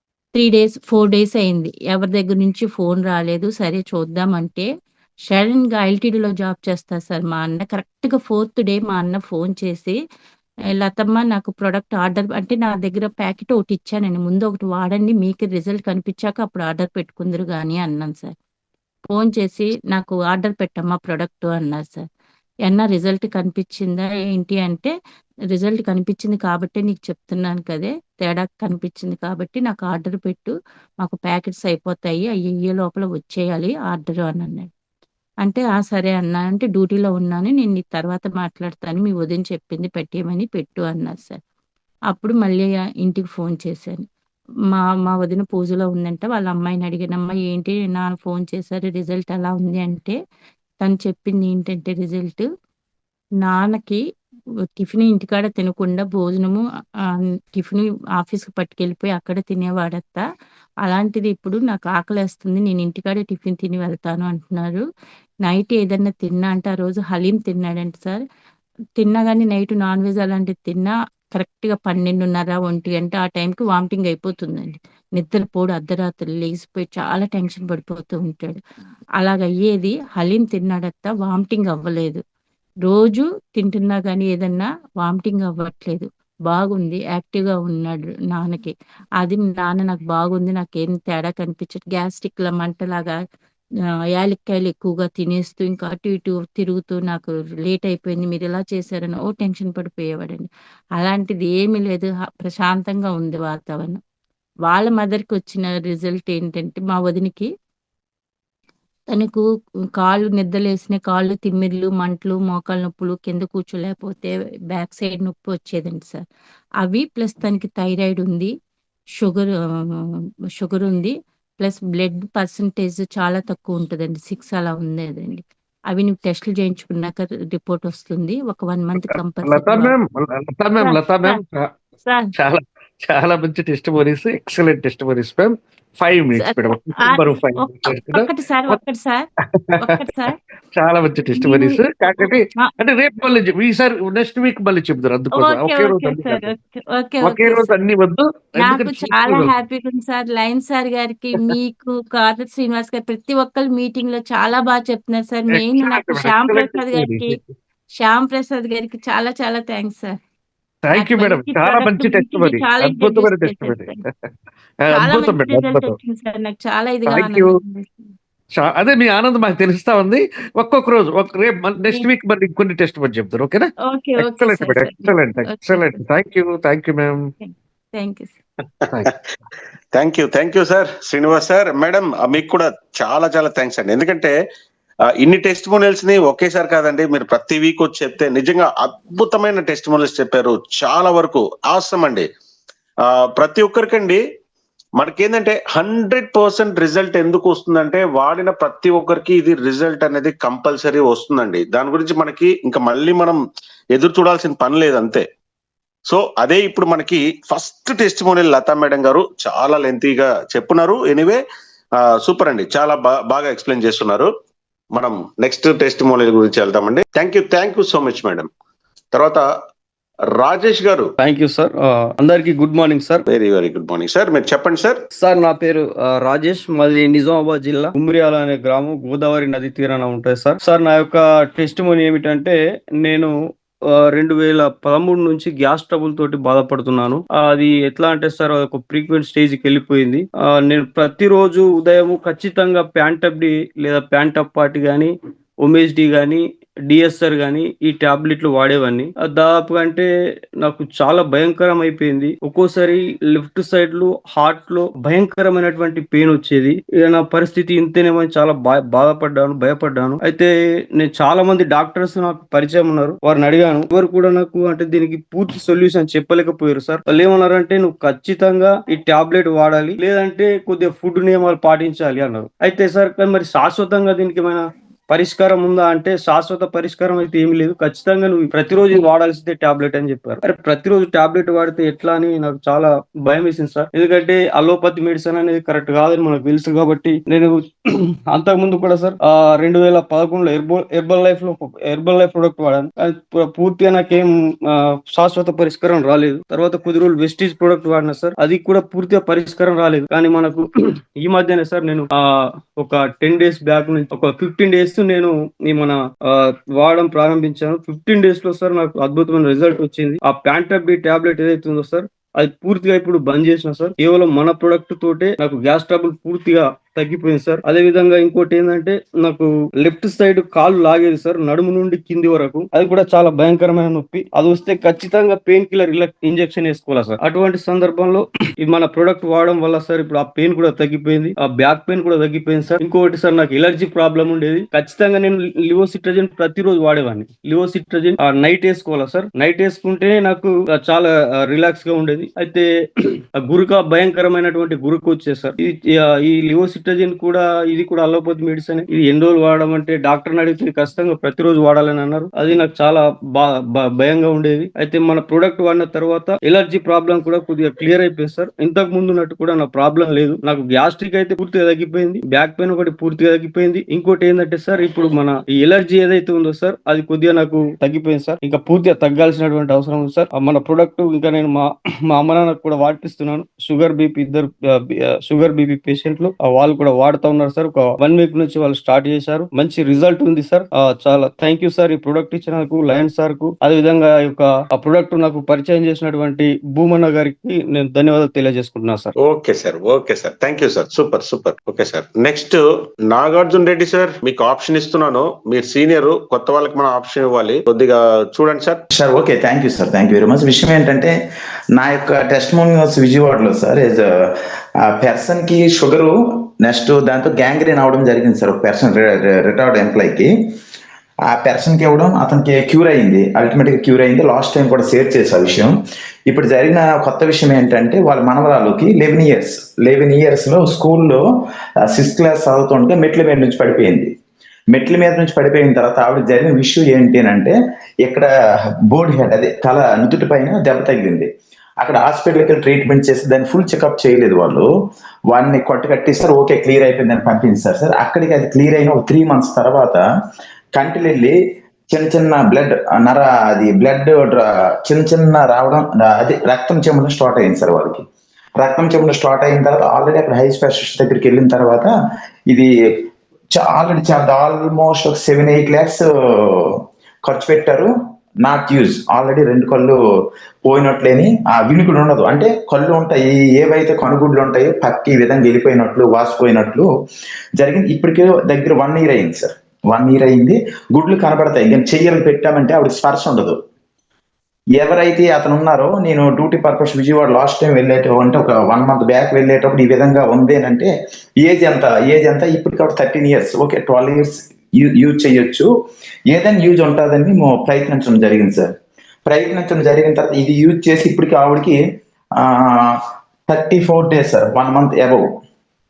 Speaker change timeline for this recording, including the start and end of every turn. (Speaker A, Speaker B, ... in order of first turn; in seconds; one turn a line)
Speaker A: 0.3-4.7
Speaker A: 5.3-10.0
Speaker A: 10.8-18.3
Speaker A: 19.1-22.1
Speaker A: 22.6-24.9
Speaker A: 25.5-30.5
Speaker A: 31.0-34.7
Speaker A: 35.4-41.4
Speaker A: 42.1-44.0
Speaker A: 44.7-50.2
Speaker A: 50.8-52.5
Speaker A: 53.4-54.0
Speaker A: 54.8-56.6
Speaker A: 57.5-60.2
Speaker A: 60.8-64.8
Speaker A: 65.5-68.2
Speaker A: 69.0-78.6
Speaker A: 79.2-82.2
Speaker A: 82.9-93.2
Speaker A: 94.2-104.0
Speaker A: 104.7-107.5
Speaker A: 109.1-109.4
Speaker A: 110.0-116.2
Speaker A: 116.8-118.5
Speaker A: 119.2-120.0
Speaker A: 120.6-129.9
Speaker B: 129.0-131.7
Speaker A: 130.8-131.4
Speaker A: 132.1-132.3
Speaker B: 132.3-138.8
Speaker A: 136.4-139.3
Speaker B: 139.5-140.0
Speaker A: 139.8-140.4
Speaker B: 140.8-146.5
Speaker A: 141.4-142.7
Speaker A: 145.4-147.7
Speaker B: 147.2-149.5
Speaker A: 148.6-157.4
Speaker B: 155.5-157.4
Speaker A: 158.0-160.2
Speaker B: 160.8-164.0
Speaker A: 161.0-164.0
Speaker B: 164.8-166.0
Speaker A: 164.9-168.1
Speaker B: 167.1-167.6
Speaker B: 168.6-177.3
Speaker A: 173.8-176.0
Speaker A: 177.4-178.3
Speaker C: 179.9-184.3
Speaker C: 185.2-192.3
Speaker C: 193.0-194.2
Speaker C: 195.0-203.4
Speaker C: 203.9-205.3
Speaker C: 206.1-211.4
Speaker C: 212.0-214.3
Speaker C: 214.9-218.5
Speaker C: 219.1-219.5
Speaker C: 220.4-221.1
Speaker D: 221.2-223.2
Speaker C: 223.3-225.0
Speaker D: 225.2-233.3
Speaker D: 234.0-245.1
Speaker D: 245.6-250.1
Speaker D: 250.6-300.7
Speaker D: 301.2-302.1
Speaker D: 302.8-342.7
Speaker D: 343.4-389.1
Speaker C: 389.2-398.8
Speaker E: 398.9-401.1
Speaker E: 401.7-410.3
Speaker E: 411.3-415.8
Speaker E: 416.3-421.2
Speaker E: 421.8-424.1
Speaker E: 424.7-428.3
Speaker E: 428.9-434.7
Speaker E: 435.3-440.0
Speaker E: 440.8-441.4
Speaker E: 441.9-448.1
Speaker E: 448.6-451.9
Speaker E: 453.5-460.0
Speaker E: 460.7-466.9
Speaker E: 467.6-473.6
Speaker E: 474.8-485.7
Speaker E: 486.3-488.7
Speaker E: 489.3-491.8
Speaker E: 492.4-495.3